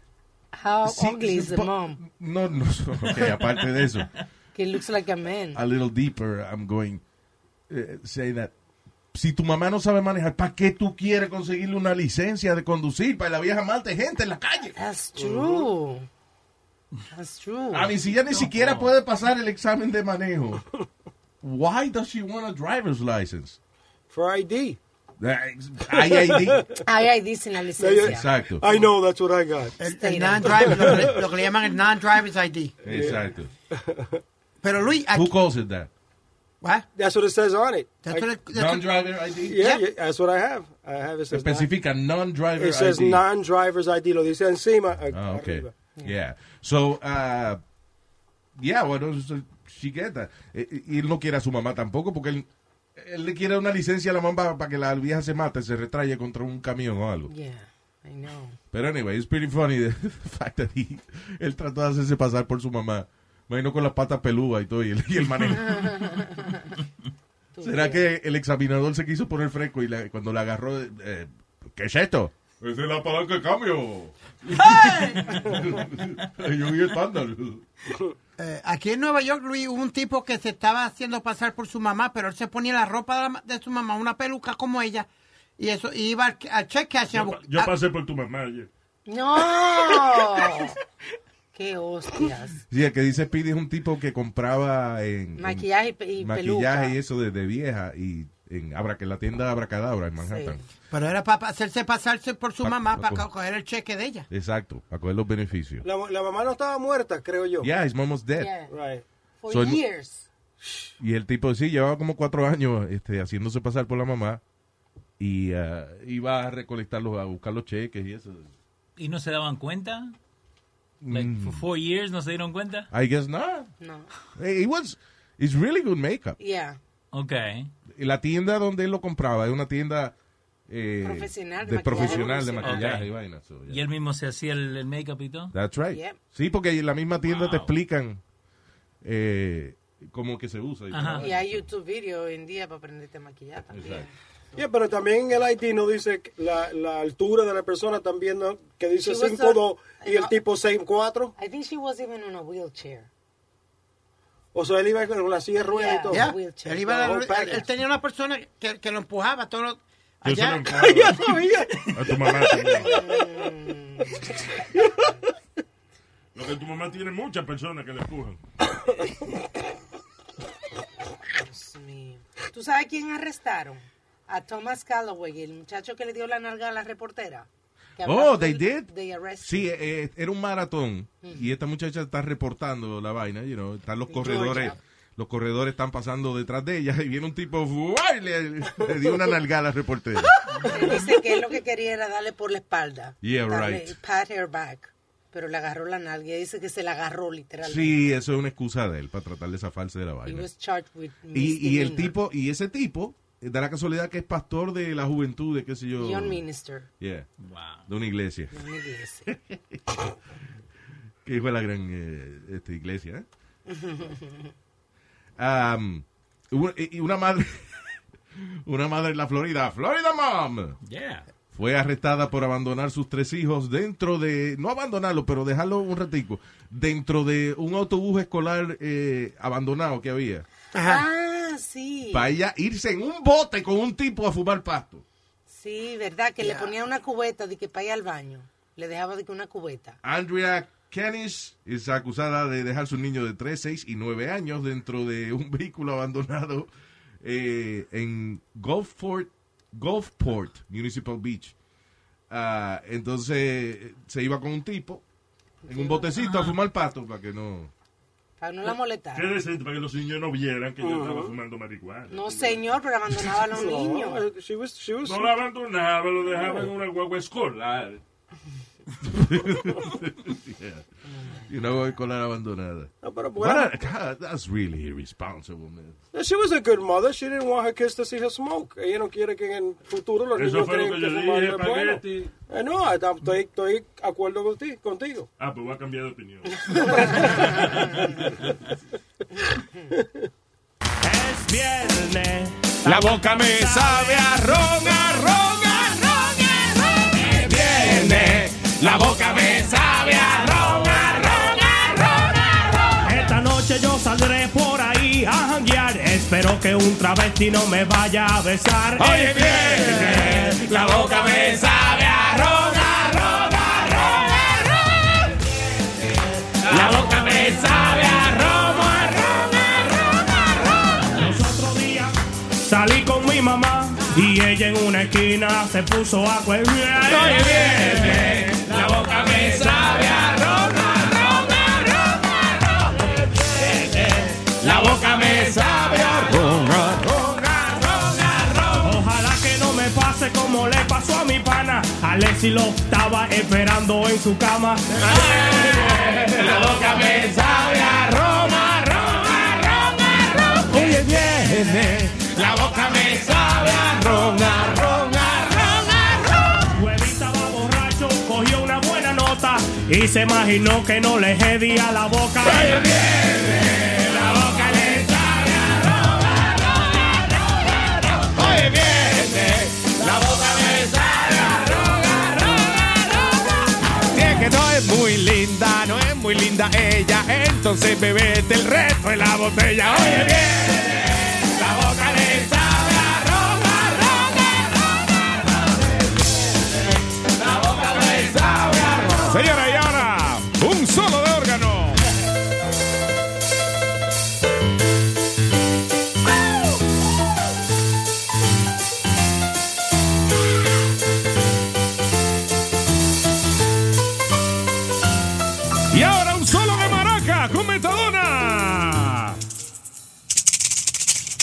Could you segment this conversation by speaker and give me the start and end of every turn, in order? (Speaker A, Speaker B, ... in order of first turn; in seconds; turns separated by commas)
Speaker A: 0.5-2.0, Speaker B: 0.8-4.1, Speaker A: 4.5-5.6, Speaker B: 5.5-7.0, Speaker B: 7.7-8.5, Speaker B: 9.1-14.7, Speaker A: 14.8-16.1, Speaker C: 15.2-15.7, Speaker A: 17.1-17.9, Speaker B: 17.7-20.6, Speaker D: 18.3-18.9, Speaker B: 21.4-23.6, Speaker C: 24.1-24.8, Speaker B: 25.2-26.6, Speaker C: 26.1-26.8, Speaker A: 26.8-28.3, Speaker C: 27.8-29.7, Speaker B: 28.0-28.7, Speaker E: 29.8-33.1, Speaker A: 30.0-30.8, Speaker C: 30.6-31.1, Speaker B: 32.8-33.5, Speaker C: 32.9-33.2, Speaker C: 33.7-34.2, Speaker E: 34.6-35.3, Speaker B: 35.1-35.9, Speaker C: 36.9-38.3, Speaker E: 38.0-38.9, Speaker B: 38.5-39.6, Speaker C: 39.4-41.7, Speaker B: 41.3-43.2, Speaker C: 42.6-45.7, Speaker B: 45.1-47.6, Speaker B: 48.5-57.3, Speaker A: 57.3-58.6, Speaker B: 58.7-66.1, Speaker A: 65.7-66.6, Speaker A: 67.5-68.1, Speaker B: 67.6-77.6, Speaker E: 78.4-87.7, Speaker F: 87.1-88.7, Speaker A: 89.0-90.8, Speaker A: 91.5-92.6, Speaker B: 92.7-95.7, Speaker A: 95.4-97.0, Speaker B: 96.2-100.6, Speaker A: 100.2-100.6, Speaker E: 100.9-104.3, Speaker B: 102.6-103.3, Speaker B: 104.3-105.8, Speaker C: 105.8-107.7, Speaker B: 107.6-108.5, Speaker A: 108.4-108.7, Speaker C: 108.7-109.0, Speaker A: 109.4-110.2, Speaker B: 109.5-109.8, Speaker B: 111.0-114.4, Speaker B: 115.2-118.5, Speaker D: 119.0-120.1, Speaker B: 121.0-121.6, Speaker D: 121.1-122.9, Speaker B: 122.9-123.7, Speaker A: 123.8-124.1, Speaker B: 124.3-126.4, Speaker A: 126.4-126.8, Speaker D: 127.1-127.7, Speaker B: 127.9-130.1, Speaker B: 130.7-133.8, Speaker A: 131.0-132.9, Speaker D: 132.6-133.1, Speaker D: 133.7-135.5, Speaker B: 135.5-138.2, Speaker A: 135.9-136.2, Speaker D: 137.3-137.7, Speaker B: 139.0-141.7, Speaker D: 140.9-141.2, Speaker A: 141.2-144.1, Speaker B: 143.7-144.1, Speaker C: 144.6-151.3, Speaker A: 149.0-150.3, Speaker A: 151.3-153.1, Speaker C: 154.5-156.3, Speaker A: 155.6-157.0, Speaker E: 156.1-160.7, Speaker C: 156.8-157.7, Speaker F: 160.2-161.2, Speaker C: 160.7-162.9, Speaker F: 161.9-162.9, Speaker A: 162.8-164.4, Speaker F: 166.3-168.4, Speaker A: 171.4-179.7, Speaker B: 178.0-190.3, Speaker A: 181.2-181.5, Speaker C: 184.1-184.8, Speaker A: 190.6-198.2, Speaker B: 193.2-194.0, Speaker B: 197.6-200.5, Speaker A: 200.2-202.1, Speaker B: 201.3-206.4, Speaker A: 206.0-206.9, Speaker B: 207.0-207.3, Speaker D: 207.4-207.8, Speaker B: 207.9-208.6, Speaker A: 208.5-209.3, Speaker B: 209.3-209.8, Speaker B: 211.2-213.2, Speaker A: 213.7-214.5, Speaker B: 215.4-220.8, Speaker D: 220.8-221.3, Speaker B: 221.5-230.4, Speaker E: 230.7-231.0, Speaker A: 230.8-232.3, Speaker B: 232.1-235.0, Speaker A: 235.5-240.0, Speaker E: 236.4-236.7, Speaker B: 240.0-246.7, Speaker B: 247.2-251.5, Speaker B: 252.3-255.0, Speaker A: 255.6-256.4, Speaker B: 255.7-257.7, Speaker A: 258.4-259.3, Speaker F: 259.1-262.6, Speaker C: 260.8-261.4, Speaker A: 262.1-264.2, Speaker C: 263.5-265.3, Speaker F: 265.0-268.0, Speaker B: 269.0-270.8, Speaker A: 271.1-271.5, Speaker B: 271.5-275.9, Speaker C: 273.0-273.8, Speaker C: 276.1-285.3, Speaker F: 280.3-282.3, Speaker F: 285.4-288.5, Speaker C: 286.7-288.0, Speaker A: 289.4-289.9, Speaker G: 291.0-294.2, Speaker H: 292.8-302.3, Speaker G: 303.0-310.3, Speaker H: 309.0-314.4, Speaker H: 316.6-319.6, Speaker G: 317.2-317.5, Speaker G: 321.1-328.2, Speaker H: 327.1-332.3, Speaker H: 333.6-338.8, Speaker G: 338.8-344.9, Speaker H: 345.0-356.2, Speaker G: 356.7-362.9, Speaker H: 362.4-366.5, Speaker H: 368.1-373.2, Speaker H: 374.1-384.7, Speaker H: 387.4-392.0, Speaker H: 405.9-409.4